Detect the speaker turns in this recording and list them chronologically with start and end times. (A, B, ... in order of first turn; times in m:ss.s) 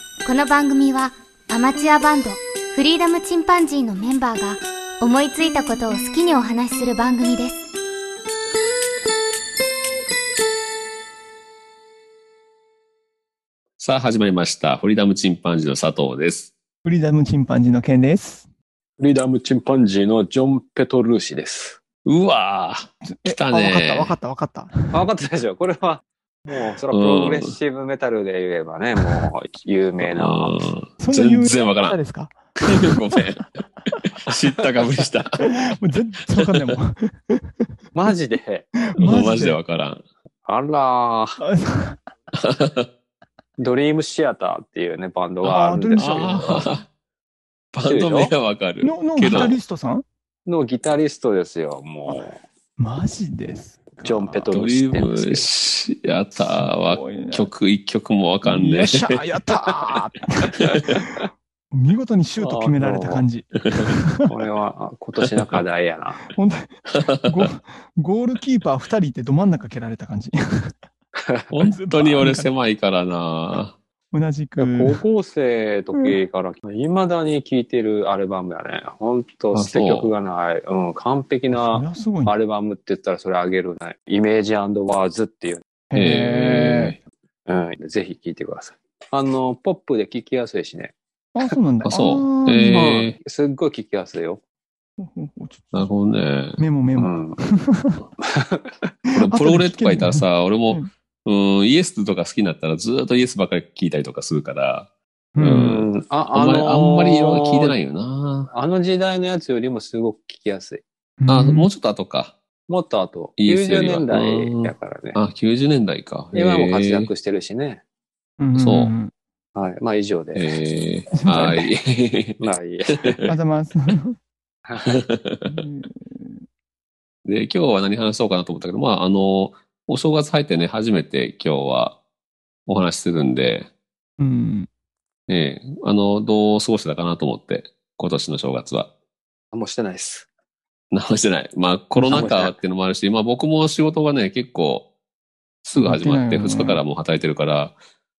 0:00.2-0:07.6 A
0:13.8-0:16.5 B
0:16.8-0:18.5 C
0:19.0-0:21.8 D
0:22.0-0:24.2 B
0:23.1-0:25.0 C
0:24.9-0:30.6 D
0:26.9-0:27.6 B
0:30.0-0:32.0 B
0:31.0-0:33.2 C
0:32.6-0:33.5 B
0:34.2-0:35.7 B
0:34.3-0:34.6 D
0:35.4-0:37.5 C
0:36.3-0:36.7 B
0:37.9-0:38.7 D
0:38.9-0:39.6 C
0:39.0-0:40.0 B
0:40.4-0:41.4 D
0:41.4-0:42.0 C
0:42.3-0:42.9 B
0:43.6-0:46.7 D
0:45.4-0:46.7 C
0:46.0-0:46.8 B
0:47.7-0:49.6 B
0:47.8-0:48.3 D
0:48.8-0:50.0 C
0:50.4-0:52.4 D
0:52.1-0:54.5 C
0:54.0-0:55.5 D
0:54.5-0:59.2 B
0:56.3-0:57.5 C
0:58.4-1:01.2 C
0:59.6-1:00.0 D
1:01.7-1:04.3 C
1:02.4-1:03.2 D
1:04.3-1:06.3 D
1:05.2-1:05.6 B
1:06.3-1:10.7 C
1:06.9-1:07.5 B
1:11.2-1:11.5 D
1:11.5-1:13.8 B
1:11.6-1:12.5 C
1:14.1-1:15.0 C
1:14.6-1:25.6 D
1:19.5-1:20.1 B
1:21.5-1:22.3 C
1:25.9-1:26.9 C
1:25.9-1:27.0 B
1:27.5-1:30.9 D
1:31.3-1:33.1 C
1:31.8-1:33.2 B
1:33.1-1:34.4 D
1:35.0-1:35.9 C
1:35.7-1:36.6 B
1:36.6-1:38.0 C
1:37.0-1:37.4 D
1:38.2-1:38.9 D
1:39.1-1:44.9 B
1:39.2-1:40.9 C
1:45.3-1:45.7 C
1:45.4-1:48.5 B
1:45.5-1:47.8 D
1:48.5-1:50.8 D
1:51.2-1:51.7 C
1:51.3-1:52.3 B
1:52.7-1:55.2 D
1:53.4-1:57.1 B
1:56.3-1:57.8 D
1:58.4-1:59.1 C
1:58.5-1:58.9 B
1:59.5-2:00.5 D
2:00.3-2:03.3 B
2:01.1-2:01.7 C
2:02.4-2:03.2 D
2:03.2-2:04.2 C
2:04.7-2:05.0 D
2:04.8-2:05.6 B
2:05.5-2:06.4 C
2:07.2-2:12.0 B
2:12.7-2:13.7 B
2:14.2-2:14.7 C
2:15.3-2:18.9 B
2:19.5-2:20.3 D
2:20.9-2:24.8 B
2:22.0-2:22.5 D
2:25.6-2:27.7 B
2:25.8-2:26.8 C